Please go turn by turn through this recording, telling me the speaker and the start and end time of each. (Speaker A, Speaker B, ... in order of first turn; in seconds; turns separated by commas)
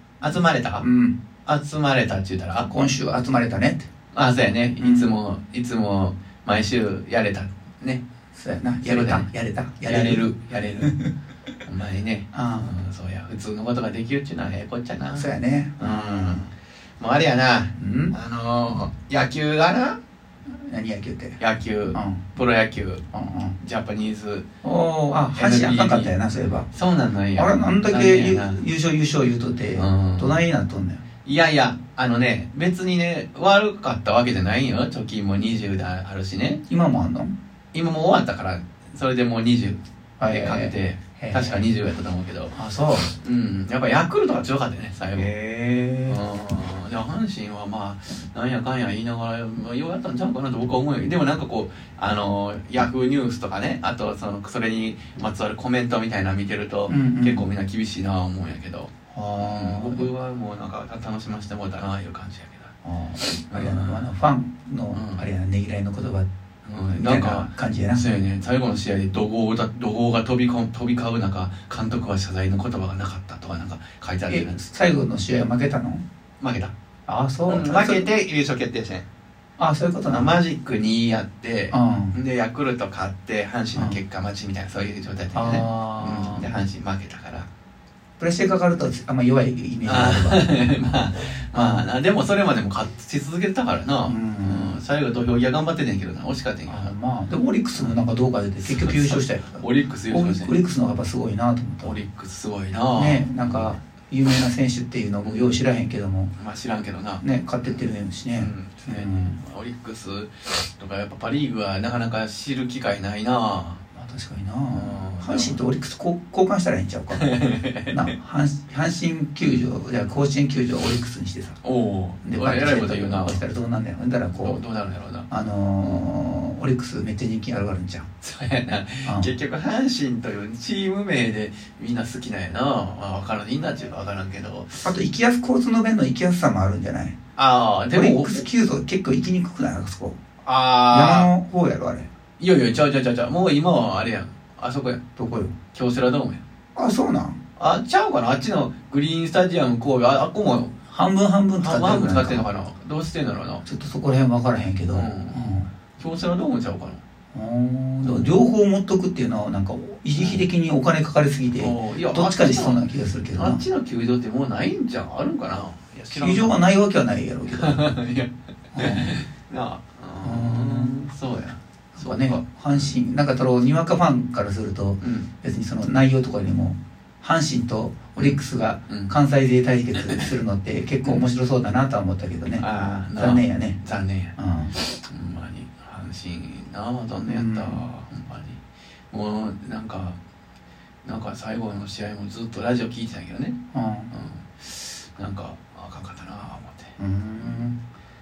Speaker A: 0.2-0.9, Speaker B: 0.8-1.2, Speaker A: 1.4-2.7, Speaker B: 2.7-3.9, Speaker A: 4.1-8.1, Speaker B: 4.8-5.1, Speaker B: 8.3-11.1, Speaker A: 8.8-9.3, Speaker A: 9.8-11.0, Speaker A: 11.7-20.0, Speaker B: 12.3-12.7, Speaker B: 15.1-16.5, Speaker B: 17.8-18.1, Speaker B: 20.6-21.4, Speaker A: 21.4-23.1, Speaker B: 21.9-22.2, Speaker B: 23.1-23.6, Speaker A: 23.6-24.5, Speaker B: 24.6-26.7, Speaker A: 25.3-26.1, Speaker A: 26.7-28.6, Speaker B: 27.4-31.0, Speaker A: 29.8-30.4, Speaker A: 31.2-36.6, Speaker B: 36.7-37.3, Speaker A: 37.7-42.5, Speaker B: 40.2-41.6, Speaker B: 42.5-43.1, Speaker A: 43.0-45.3, Speaker B: 45.1-46.2, Speaker A: 46.1-62.7, Speaker B: 56.9-57.5, Speaker B: 59.1-60.1, Speaker B: 62.8-66.3, Speaker A: 63.5-64.1, Speaker A: 64.9-65.2, Speaker A: 66.7-74.6, Speaker B: 66.9-68.0, Speaker B: 74.3-76.0, Speaker A: 76.4-76.7, Speaker B: 77.1-78.1, Speaker A: 77.5-79.1, Speaker B: 79.6-80.3, Speaker A: 80.1-87.5, Speaker B: 81.7-82.2, Speaker B: 85.3-86.5, Speaker B: 88.2-90.4, Speaker A: 89.8-96.9, Speaker B: 91.5-91.8, Speaker B: 94.0-94.8, Speaker B: 96.7-102.0, Speaker A: 98.6-100.5, Speaker A: 101.8-103.8, Speaker B: 102.9-106.3, Speaker A: 105.2-105.6, Speaker A: 106.4-107.8, Speaker B: 107.2-109.4, Speaker A: 108.3-113.8, Speaker B: 113.9-117.3, Speaker A: 114.7-115.6, Speaker A: 117.1-118.0, Speaker B: 117.9-121.6, Speaker A: 119.4-119.7, Speaker A: 121.6-123.4, Speaker B: 122.2-124.6, Speaker A: 124.3-125.3, Speaker B: 125.3-128.1, Speaker A: 128.2-134.8, Speaker B: 129.0-129.3, Speaker B: 134.8-137.2, Speaker A: 137.4-138.4, Speaker B: 137.9-140.2, Speaker A: 140.4-141.3, Speaker B: 140.9-142.1, Speaker A: 142.4-145.0, Speaker B: 145.2-145.5, Speaker A: 145.7-146.4, Speaker B: 146.8-147.4, Speaker A: 147.6-150.7, Speaker B: 150.9-152.4, Speaker A: 151.6-153.6, Speaker B: 153.6-155.7, Speaker A: 154.9-157.0, Speaker B: 157.3-163.6, Speaker A: 158.0-158.3, Speaker A: 160.1-160.5, Speaker A: 161.6-166.6, Speaker B: 166.1-167.8, Speaker A: 167.5-172.9, Speaker B: 168.7-169.1, Speaker B: 170.2-171.0, Speaker B: 171.9-183.8, Speaker A: 175.0-175.3, Speaker A: 178.2-179.1, Speaker A: 180.0-180.3, Speaker A: 182.6-188.6, Speaker B: 184.4-184.7, Speaker B: 187.2-187.8, Speaker A: 189.1-190.2, Speaker A: 191.0-193.6, Speaker B: 193.7-194.1, Speaker A: 194.1-197.6, Speaker B: 197.0-197.8